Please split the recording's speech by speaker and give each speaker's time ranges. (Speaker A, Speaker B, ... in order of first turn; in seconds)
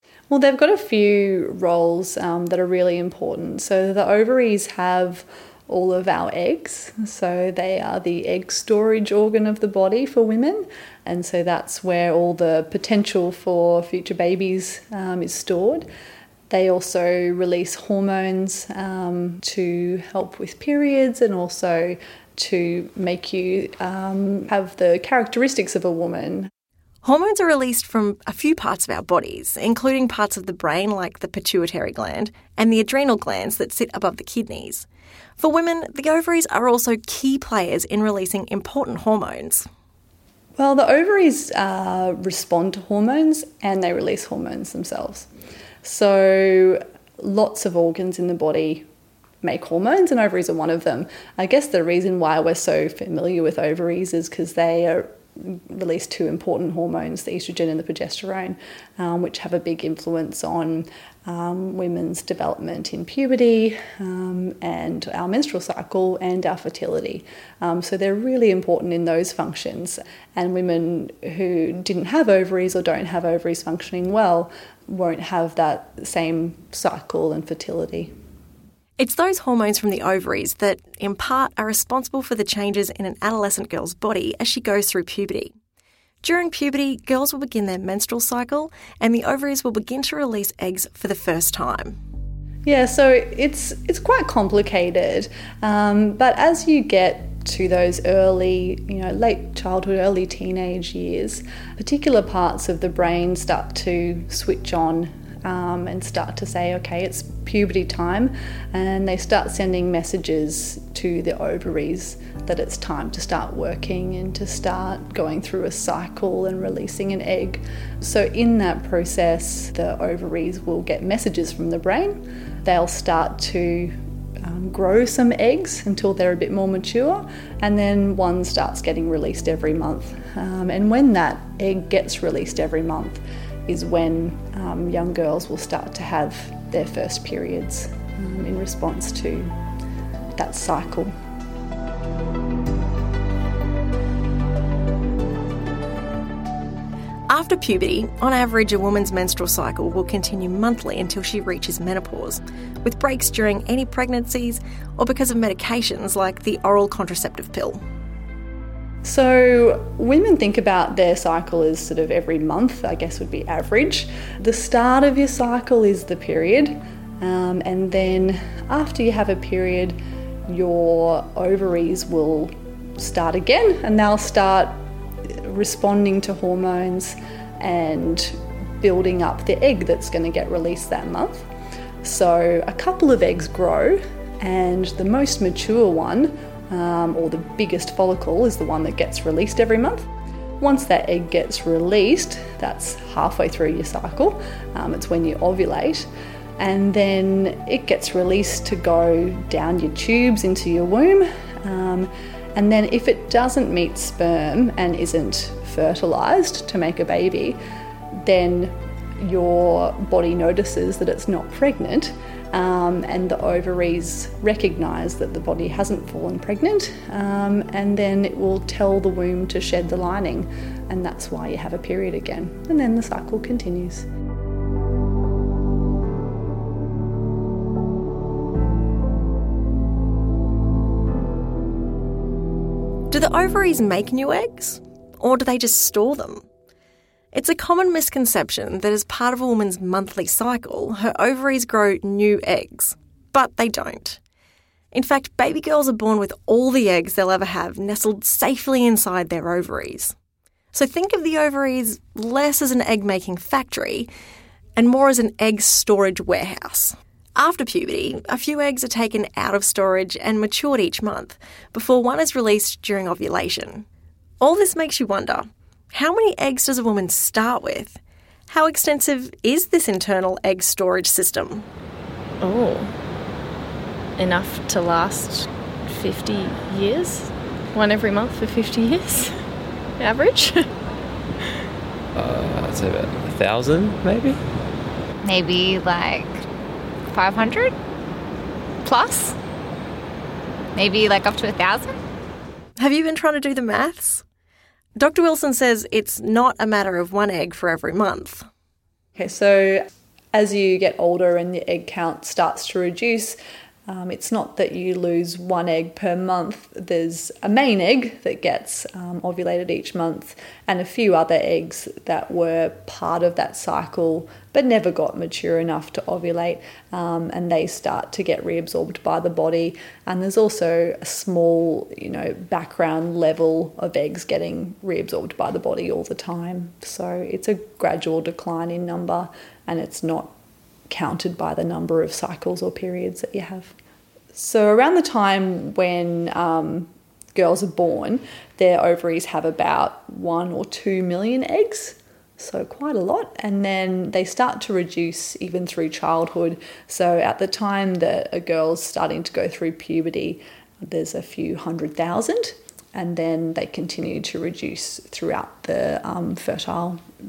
Speaker A: 0.3-15.9, 16.5-26.5, 40.6-45.3, 45.8-48.9, 49.4-78.1, 92.7-139.6, 140.4-141.1, 159.0-181.5, 182.0-207.6, 208.2-224.1, 299.2-330.3, 330.9-333.7, 334.3-357.0
Speaker B: 27.0-34.9, 35.4-39.7, 79.0-85.5, 86.2-92.0, 147.3-157.8, 233.1-236.4, 237.3-244.2, 244.9-250.2, 250.7-254.1, 254.8-263.9, 264.4-271.7, 292.8-294.2, 295.0-298.5
Speaker C: 272.4-272.9, 274.2-279.4, 280.0-280.7
Speaker D: 282.1-284.4
Speaker E: 285.2-286.4, 287.1-287.8, 288.8-289.4, 290.8-292.0